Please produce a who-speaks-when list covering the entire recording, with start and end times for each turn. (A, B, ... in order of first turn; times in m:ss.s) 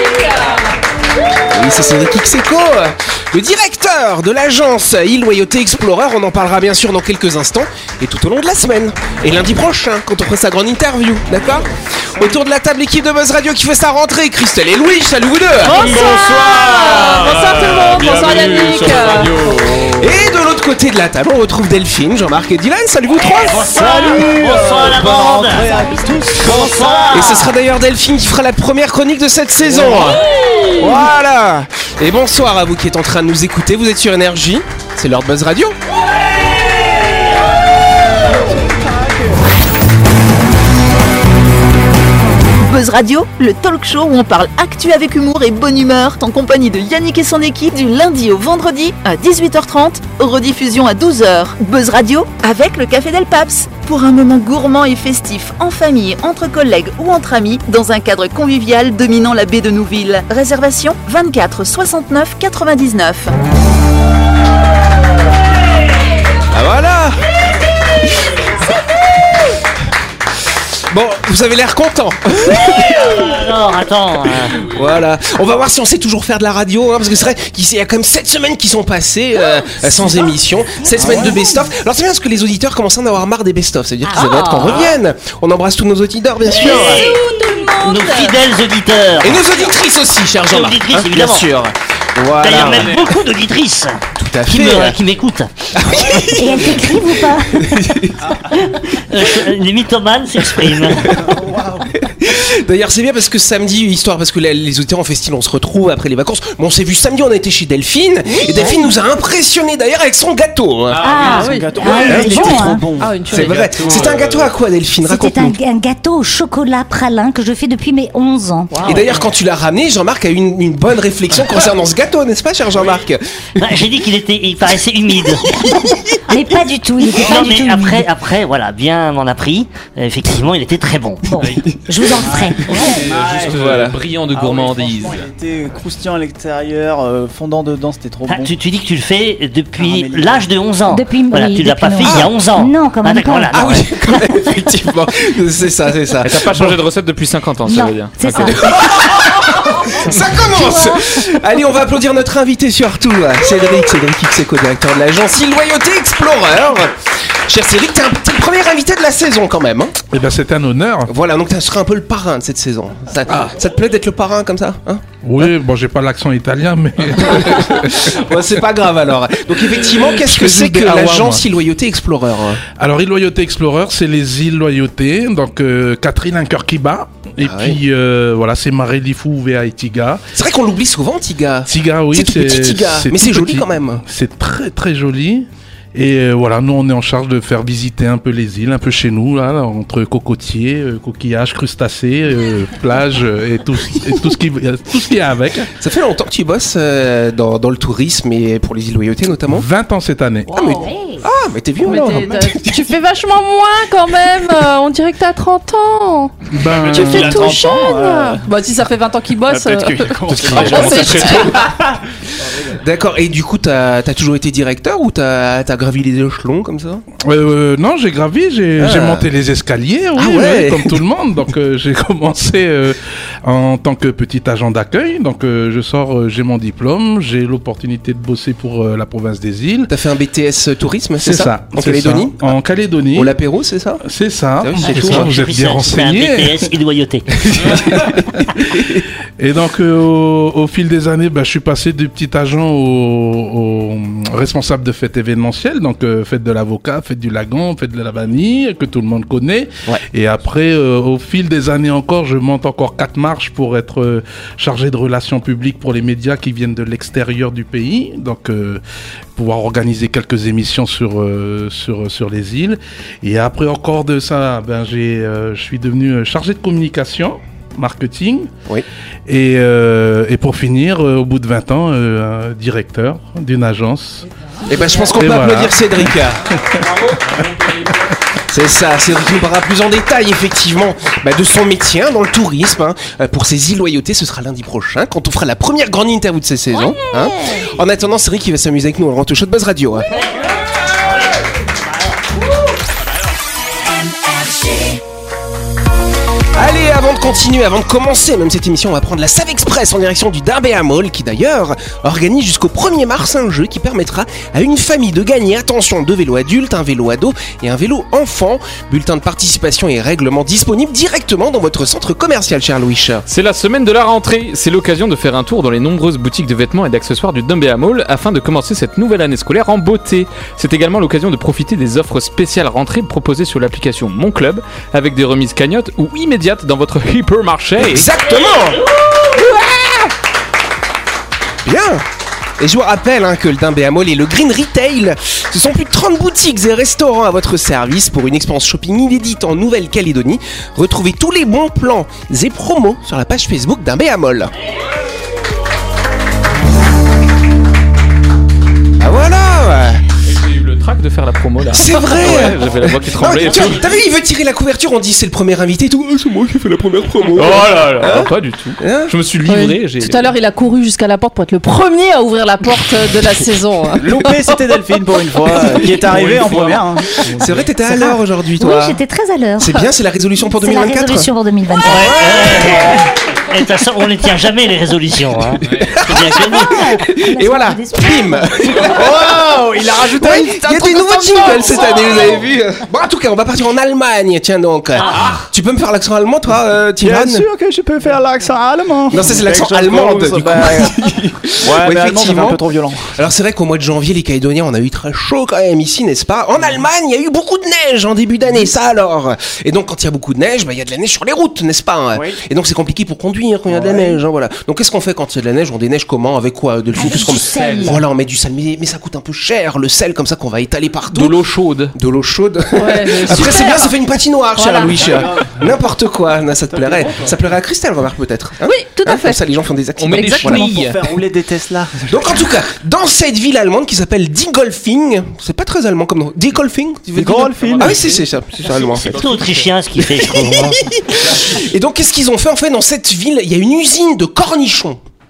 0:01.5-0:15.8 A
0:15.6-0:19.4 B
0:15.7-0:20.1 C
0:20.0-0:23.7 A
0:23.3-0:25.7 D
0:23.6-0:27.3 E
0:26.4-0:27.6 D
0:27.1-0:30.2 A
0:30.8-0:31.1 E
0:30.8-0:35.8 A
0:42.6-1:03.3 F
1:06.5-1:07.2 A
1:10.9-1:13.4 A
1:12.4-1:14.7 D
1:14.4-1:27.1 A
1:21.0-1:21.4 G
1:24.1-1:24.4 G
1:24.2-1:24.7 B
1:24.6-1:24.9 D
1:26.4-1:27.2 D
1:26.6-1:28.1 G
1:26.9-1:28.4 B
1:27.8-1:29.6 D
1:29.2-1:33.0 A
1:30.5-1:31.5 D
1:32.4-1:36.7 D
1:32.5-1:33.0 C
1:34.2-1:35.0 A
1:35.7-1:38.6 A
1:36.4-1:37.6 G
1:39.1-1:41.1 D
1:40.8-1:41.4 A
1:41.0-1:41.9 E
1:41.9-1:51.1 A
1:48.3-1:48.8 G
1:50.9-1:52.1 C
1:51.0-1:52.8 G
1:51.1-1:53.9 E
1:51.2-1:51.8 B
1:52.0-1:52.7 A
1:53.0-1:53.6 B
1:53.3-1:55.6 A
1:53.3-1:54.5 C
1:55.0-1:59.1 G
1:58.8-2:03.8 A
2:03.6-2:05.5 D
2:06.3-2:08.1 G
2:07.2-2:11.3 D
2:11.3-2:12.9 G
2:12.2-2:18.5 E
2:12.7-2:15.2 C
2:18.3-2:23.9 D
2:19.8-2:20.4 E
2:20.9-2:24.2 G
2:23.5-2:26.8 A
2:26.2-2:28.6 C
2:27.7-2:28.7 G
2:28.5-2:40.0 A
2:29.7-2:31.2 G
2:40.1-2:41.1 H
2:41.1-2:45.0 A
2:45.2-2:48.2 H
2:47.3-2:52.6 A
2:49.8-2:51.4 H
2:52.8-3:00.3 H
2:57.4-2:57.8 A
3:00.4-3:04.0 A
3:01.7-3:15.7 H
3:15.8-3:19.7 A
3:19.4-3:20.6 H
3:20.5-3:22.9 A
3:20.5-3:21.3 G
3:21.8-3:31.5 B
3:26.5-3:27.6 H
3:26.6-3:28.8 E
3:29.4-3:32.0 E
3:30.2-3:31.7 C
3:32.7-3:37.0 A
3:37.2-3:49.9 H
3:38.8-3:39.3 A
3:40.2-3:41.0 A
3:49.9-3:52.6 A
3:51.2-3:53.4 H
3:53.1-3:54.0 A
3:54.0-3:56.7 H
3:54.6-3:55.3 A
3:54.8-3:57.3 D
3:57.5-3:58.9 H
3:57.6-3:58.1 A
3:58.6-3:59.0 A
3:59.4-4:18.8 H
4:19.4-4:28.5 H
4:29.3-4:34.3 H
4:34.6-4:36.6 A
4:35.1-4:35.9 H
4:36.8-4:38.1 C
4:38.5-4:50.1 A
4:56.5-5:13.2 A
5:13.3-5:28.1 C
5:27.8-5:30.1 A
5:31.6-5:32.0 A
5:32.6-5:44.5 A
5:49.0-5:50.0 A
5:50.2-5:53.8 C
5:51.7-5:59.1 A
5:57.3-6:00.3 C
5:59.4-6:04.5 B
6:04.0-6:07.2 E
6:05.7-6:07.7 C
6:07.4-6:09.0 A
6:07.9-6:09.8 G
6:09.6-6:11.3 A
6:10.6-6:12.5 G
6:11.8-6:16.8 D
6:12.0-6:12.9 A
6:15.6-6:15.9 C
6:15.7-6:27.4 A
6:16.2-6:18.8 G
6:18.8-6:22.3 E
6:25.1-6:25.5 C
6:27.0-6:33.1 E
6:29.1-6:32.6 A
6:33.1-6:51.4 A
6:42.1-6:42.4 E
6:43.7-6:44.2 E
6:47.0-6:48.0 G
6:47.2-6:47.9 C
6:51.1-6:52.0 C
6:51.9-7:00.7 A
6:52.8-6:54.0 B
6:54.6-6:55.0 B
6:54.8-6:55.6 E
6:56.7-6:57.4 E
6:58.6-6:59.4 B
7:00.0-7:01.0 C
7:00.1-7:00.5 B
7:00.4-7:02.5 E
7:02.1-7:09.2 A
7:07.2-7:08.1 E
7:07.5-7:09.7 C
7:09.1-7:10.9 D
7:10.2-7:15.0 A
7:11.2-7:11.6 C